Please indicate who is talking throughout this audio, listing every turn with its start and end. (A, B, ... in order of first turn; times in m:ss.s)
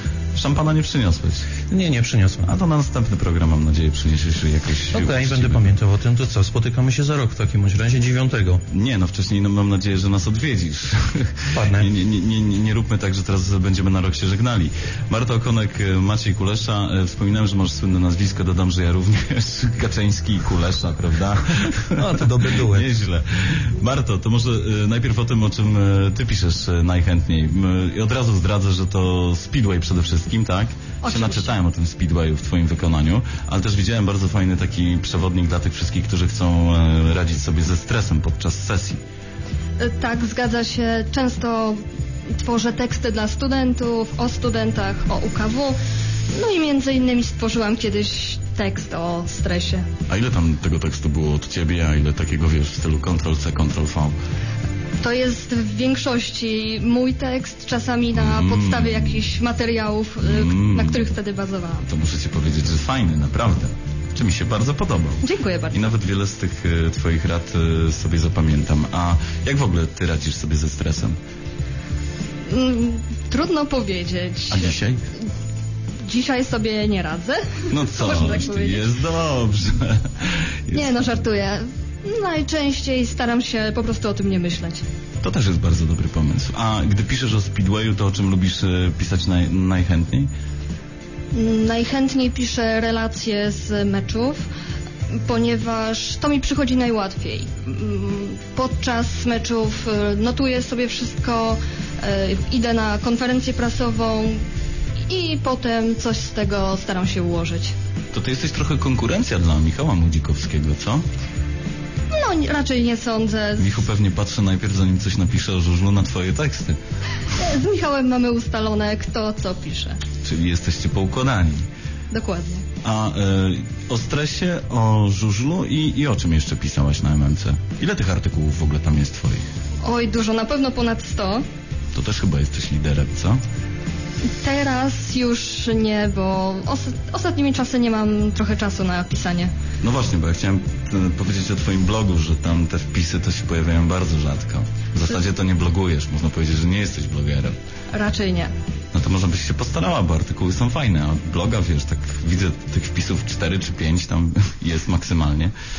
0:00.3-0:01.5 A
0:01.7-0:02.5 B
0:02.4-0:05.7 A
0:04.9-0:08.6 B
0:08.7-0:39.0 A
0:11.5-0:11.9 B
0:22.0-0:22.9 B
0:31.0-0:31.5 C
0:39.8-0:41.8 C
0:42.4-0:45.8 C
0:46.3-0:49.9 C
0:50.1-0:54.2 A
0:55.0-1:01.9 C
0:58.1-0:59.2 A
1:00.2-1:01.1 A
1:01.8-1:11.2 A
1:05.2-1:05.9 C
1:12.5-1:14.8 C
1:14.5-1:15.0 A
1:16.0-1:18.9 C
1:17.7-1:21.1 A
1:20.7-1:24.8 C
1:25.2-1:30.3 A
1:31.3-1:34.4 C
1:35.2-1:44.4 C
1:45.1-1:47.7 C
1:48.1-1:51.0 A
1:52.1-1:53.9 C
1:53.6-1:56.8 A
1:57.3-2:00.0 C
2:00.2-2:01.6 A
2:02.1-2:02.6 C
2:02.8-2:09.4 A
2:09.8-2:11.4 C
2:11.9-2:13.4 A
2:14.4-2:19.5 C
2:19.8-2:27.5 A
2:27.9-2:28.5 C
2:28.9-2:35.5 A